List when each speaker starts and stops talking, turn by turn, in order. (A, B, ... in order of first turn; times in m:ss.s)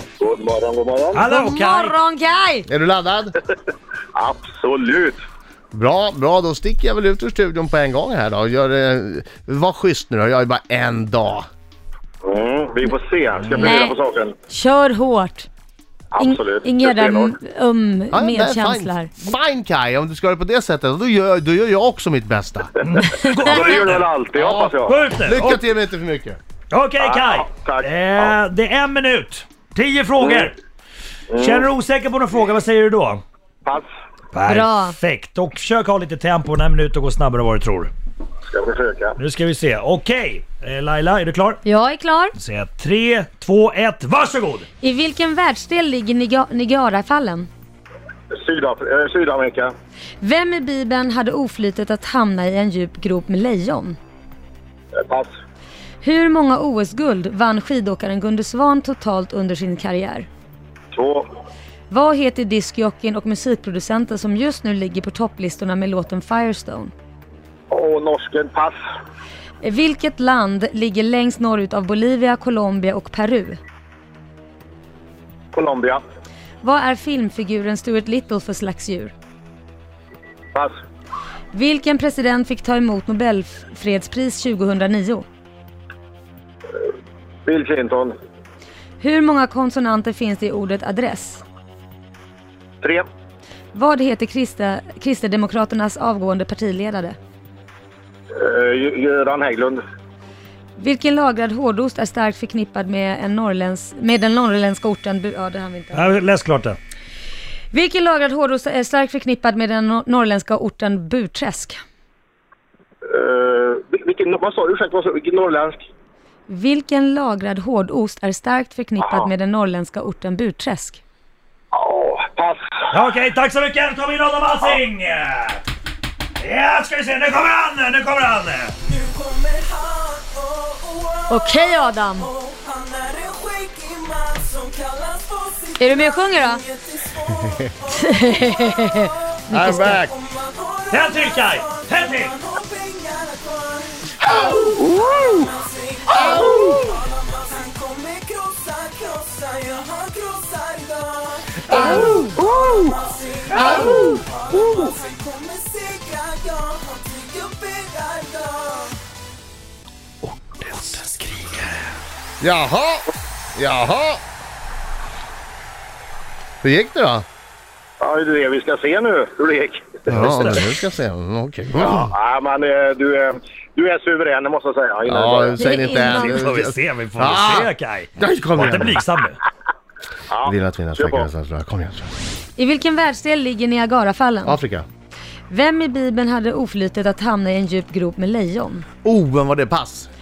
0:00.2-0:01.2 A
0:01.1-0:02.0 B
0:01.2-0:02.7 C
0:02.7-0:03.4 D
0:04.1-0:05.2 A
0:05.7-0:11.4 D
0:12.2-0:14.3 A
0:13.4-0:13.8 B
0:13.6-0:14.0 C
0:14.5-0:15.5 C
0:16.1-0:17.3 A
0:16.2-0:19.1 C
0:18.1-0:22.7 D
0:22.8-0:24.1 B
0:23.0-0:25.0 A
0:24.3-0:26.4 D
0:24.8-0:25.6 B
0:26.7-0:30.6 B
0:27.0-0:28.4 A
0:30.2-0:30.5 A
0:31.3-0:31.7 A
0:31.4-0:33.2 B
0:34.3-0:37.9 B
0:34.5-0:35.0 C
0:38.5-0:39.2 A
0:39.2-0:41.6 B
0:41.6-0:42.3 C
0:42.4-0:44.7 B
0:44.8-0:47.5 C
0:48.3-0:49.7 A
0:50.2-0:54.0 C
0:55.0-0:55.3 A
0:56.0-1:00.3 C
1:00.9-1:01.2 A
1:01.9-1:06.9 C
1:07.7-1:08.8 A
1:09.6-1:13.6 C
1:15.5-1:16.0 A
1:16.6-1:19.1 C
1:21.5-1:25.2 C
1:27.4-1:28.1 A
1:29.0-1:31.4 C
1:32.8-1:33.1 A
1:33.7-1:37.2 C
1:38.3-1:39.8 A
1:40.8-1:46.1 C
1:45.9-1:46.8 B
1:47.7-1:51.8 C
1:53.1-1:55.8 A
1:56.5-2:01.0 C
1:59.0-1:59.3 A
2:01.7-2:02.6 A
2:02.9-2:05.6 B
2:06.4-2:08.8 B
2:08.9-2:11.5 E
2:11.3-2:12.3 C
2:12.2-2:18.4 E
2:15.8-2:16.6 C
2:17.9-2:20.0 C
2:19.5-2:20.1 D
2:20.3-2:31.8 E
2:20.9-2:22.4 B
2:24.2-2:25.5 A
2:26.2-2:26.9 A
2:26.2-2:26.6 D
2:31.7-2:32.4 B
2:31.7-2:33.0 A
2:32.3-2:39.0 E
2:33.6-2:33.8 A
2:33.6-2:34.2 D
2:33.7-2:34.1 B
2:34.6-2:34.9 A
2:40.2-2:41.9 B
2:42.4-2:44.2 D
2:46.6-2:47.2 D
2:48.0-2:50.2 A
2:50.1-2:52.1 D
2:50.1-2:50.6 B
2:51.8-2:55.6 A
2:55.0-2:59.0 D
2:55.6-2:56.4 C
2:56.1-2:59.4 B
3:00.3-3:01.3 A
3:00.4-3:02.1 D
3:02.6-3:04.6 C
3:04.4-3:04.8 D
3:05.5-3:08.8 C
3:09.0-3:10.1 D